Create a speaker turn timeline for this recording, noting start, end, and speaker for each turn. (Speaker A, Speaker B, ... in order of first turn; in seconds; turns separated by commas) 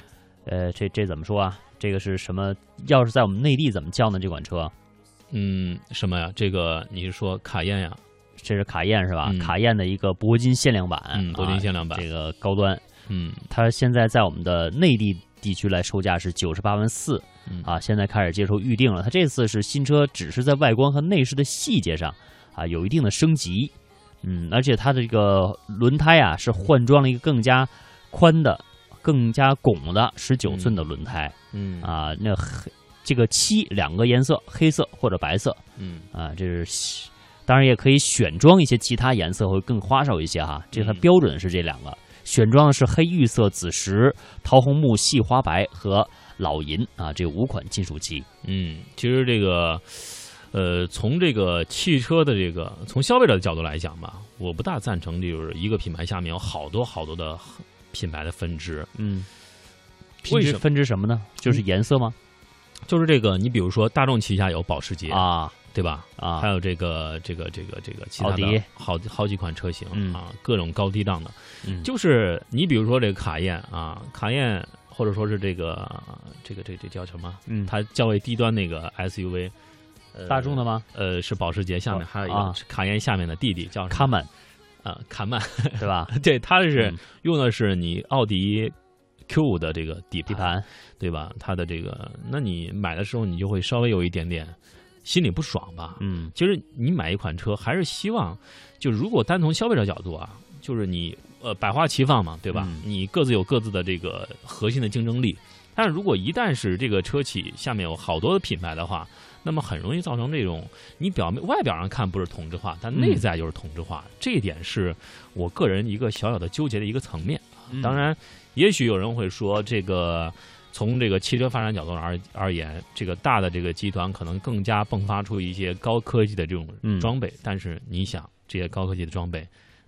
Speaker A: 0.5-4.7, Speaker B: 5.3-8.0, Speaker A: 8.4-12.8, Speaker B: 9.2-9.6, Speaker B: 11.1-12.1, Speaker B: 13.1-13.5, Speaker A: 13.5-35.6, Speaker B: 30.5-31.0, Speaker B: 31.5-31.9, Speaker B: 35.8-36.1, Speaker A: 36.1-48.3, Speaker B: 40.7-41.1, Speaker B: 48.4-58.9, Speaker A: 59.0-59.3, Speaker A: 60.2-62.2, Speaker B: 60.3-60.6, Speaker B: 62.9-79.5, Speaker A: 65.1-65.6, Speaker A: 66.2-66.5, Speaker A: 68.2-68.7, Speaker A: 69.9-70.2, Speaker A: 71.6-71.9, Speaker A: 77.5-77.7, Speaker B: 80.1-84.2, Speaker A: 80.3-80.9, Speaker A: 81.9-82.6, Speaker A: 83.9-84.3, Speaker B: 84.8-88.8, Speaker A: 85.8-86.1, Speaker A: 86.8-87.0, Speaker B: 89.3-129.5, Speaker A: 90.3-90.7, Speaker A: 96.0-96.3, Speaker A: 102.5-102.8, Speaker A: 112.9-113.2, Speaker A: 117.7-118.1, Speaker A: 126.8-127.1